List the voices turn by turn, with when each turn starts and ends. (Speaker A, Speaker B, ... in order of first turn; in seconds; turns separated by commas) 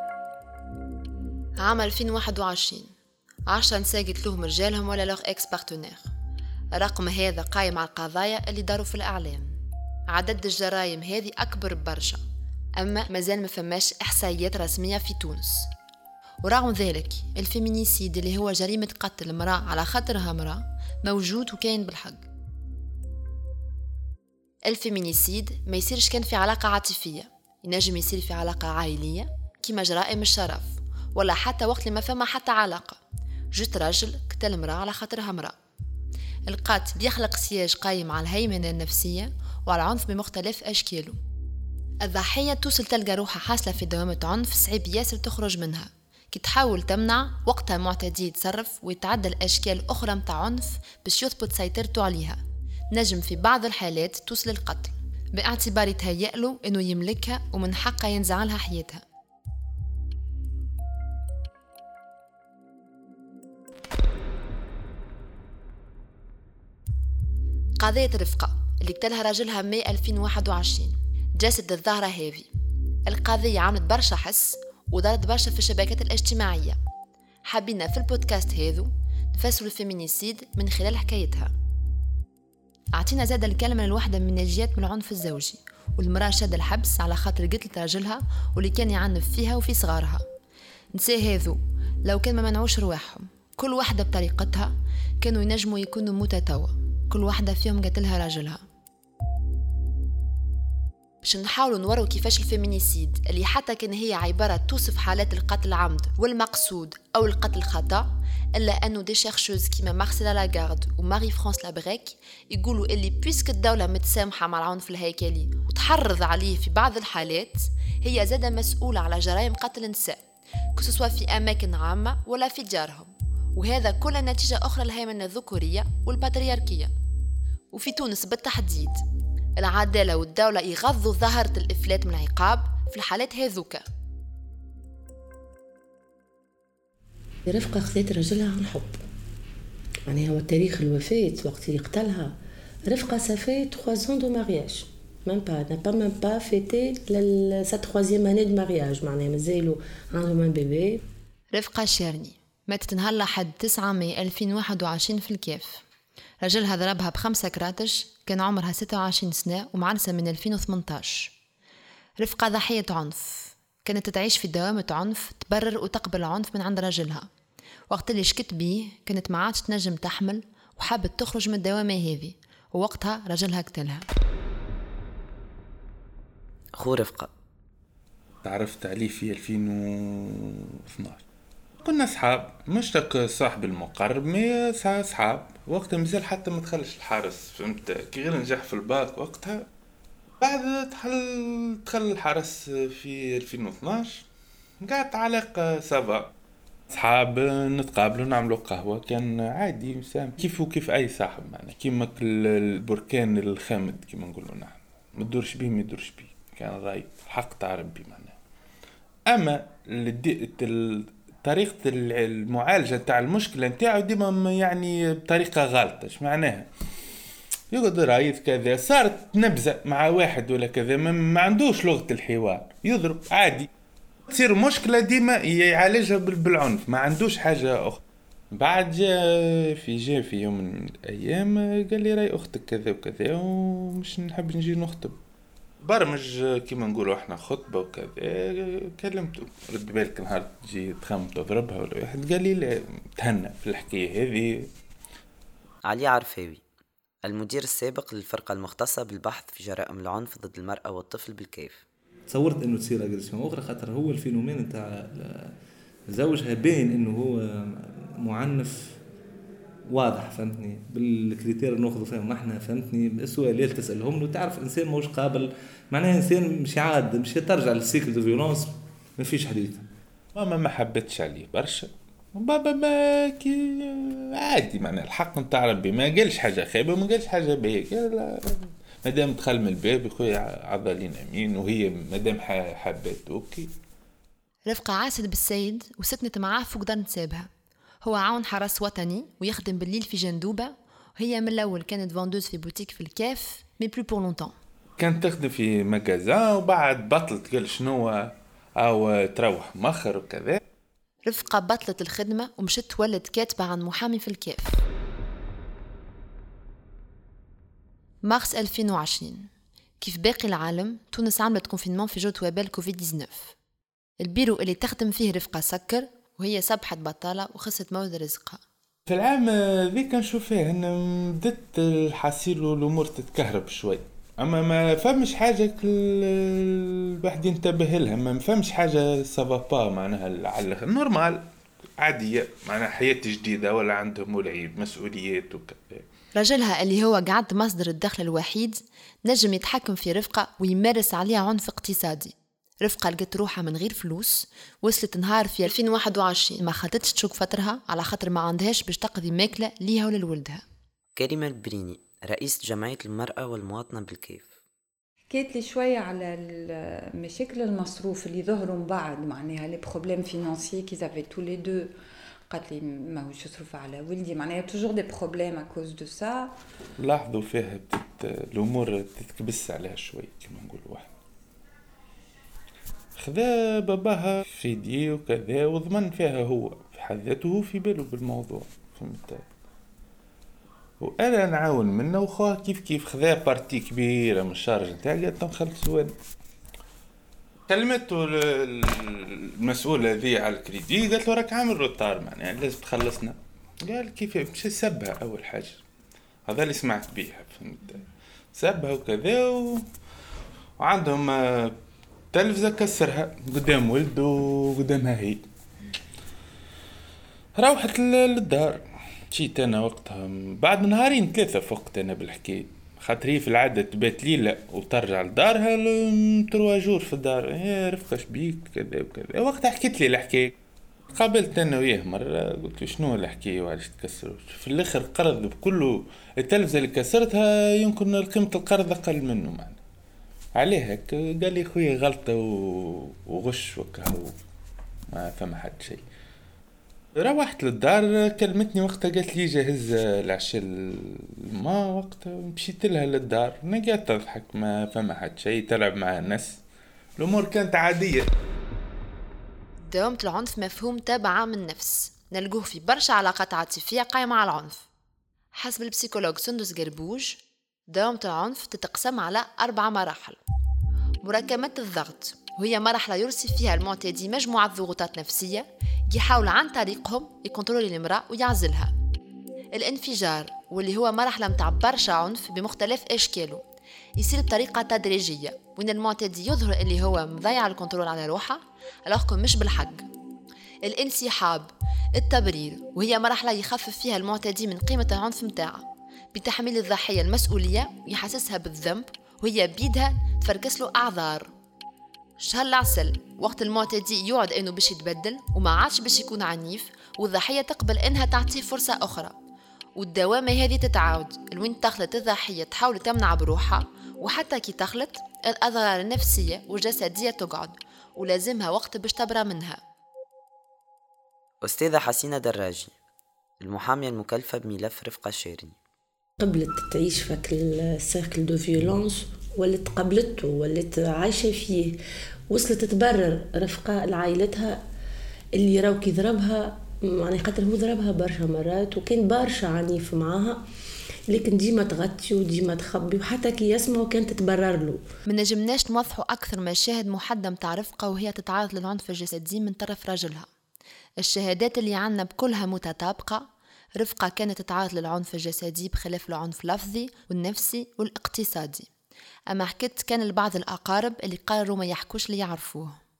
Speaker A: 1.6-2.9, Speaker A: 3.5-6.1, Speaker A: 6.8-9.6, Speaker A: 10.1-12.2, Speaker A: 12.8-15.7, Speaker A: 16.4-22.3, Speaker A: 24.7-33.0, Speaker A: 33.5-35.5, Speaker A: 36.5-41.2, Speaker A: 42.0-52.4, Speaker A: 52.9-59.0, Speaker A: 67.8-72.5, Speaker A: 73.1-76.8, Speaker A: 77.5-81.5, Speaker A: 82.9-90.2, Speaker A: 90.9-98.6, Speaker A: 101.2-120.2, Speaker A: 120.8-126.9, Speaker A: 127.7-129.0, Speaker A: 129.6-133.8, Speaker B: 137.5-139.0, Speaker B: 140.1-142.3, Speaker B: 142.8-151.0, Speaker A: 151.5-155.8, Speaker A: 156.4-161.3, Speaker A: 162.2-167.2, Speaker A: 167.9-174.0, Speaker C: 176.8-177.3, Speaker D: 178.4-181.2, Speaker D: 181.8-189.7, Speaker D: 190.4-194.2, Speaker D: 194.8-196.3, Speaker D: 196.9-208.3, Speaker D: 209.3-216.7, Speaker D: 217.7-223.7, Speaker D: 224.3-235.2, Speaker D: 235.8-244.7, Speaker C: 245.8-246.6, Speaker C: 247.2-251.8, Speaker E: 252.3-255.5, Speaker E: 256.1-259.0, Speaker E: 259.9-269.9, Speaker D: 270.3-283.7, Speaker A: 284.7-287.5, Speaker A: 288.0-294.5, Speaker D: 295.0-300.6, Speaker A: 301.2-304.8, Speaker A: 308.2-309.5, Speaker A: 310.0-313.6, Speaker A: 314.2-318.6, Speaker D: 319.1-336.1, Speaker A: 336.3-350.6, Speaker C: 351.1-354.5, Speaker F: 355.3-361.9, Speaker F: 362.5-366.5, Speaker D: 367.0-371.1, Speaker D: 373.1-379.4, Speaker D: 381.0-386.1, Speaker D: 387.7-395.8, Speaker D: 396.4-399.9, Speaker D: 400.8-401.8, Speaker D: 402.3-405.4, Speaker D: 407.6-420.5, Speaker D: 421.1-429.8, Speaker D: 430.6-434.4, Speaker D: 435.1-436.1, Speaker D: 437.1-446.6, Speaker D: 447.2-448.3, Speaker A: 449.8-454.9, Speaker A: 455.5-460.4, Speaker A: 461.2-468.9, Speaker A: 469.7-473.6, Speaker A: 474.2-480.1, Speaker A: 480.8-485.8, Speaker A: 486.3-491.5, Speaker A: 492.4-499.3, Speaker A: 499.9-509.8, Speaker C: 511.6-512.9, Speaker C: 513.6-515.8, Speaker B: 516.4-524.8, Speaker B: 525.6-530.6, Speaker B: 531.3-535.0, Speaker A: 535.3-540.5, Speaker A: 541.2-548.9, Speaker A: 549.5-553.0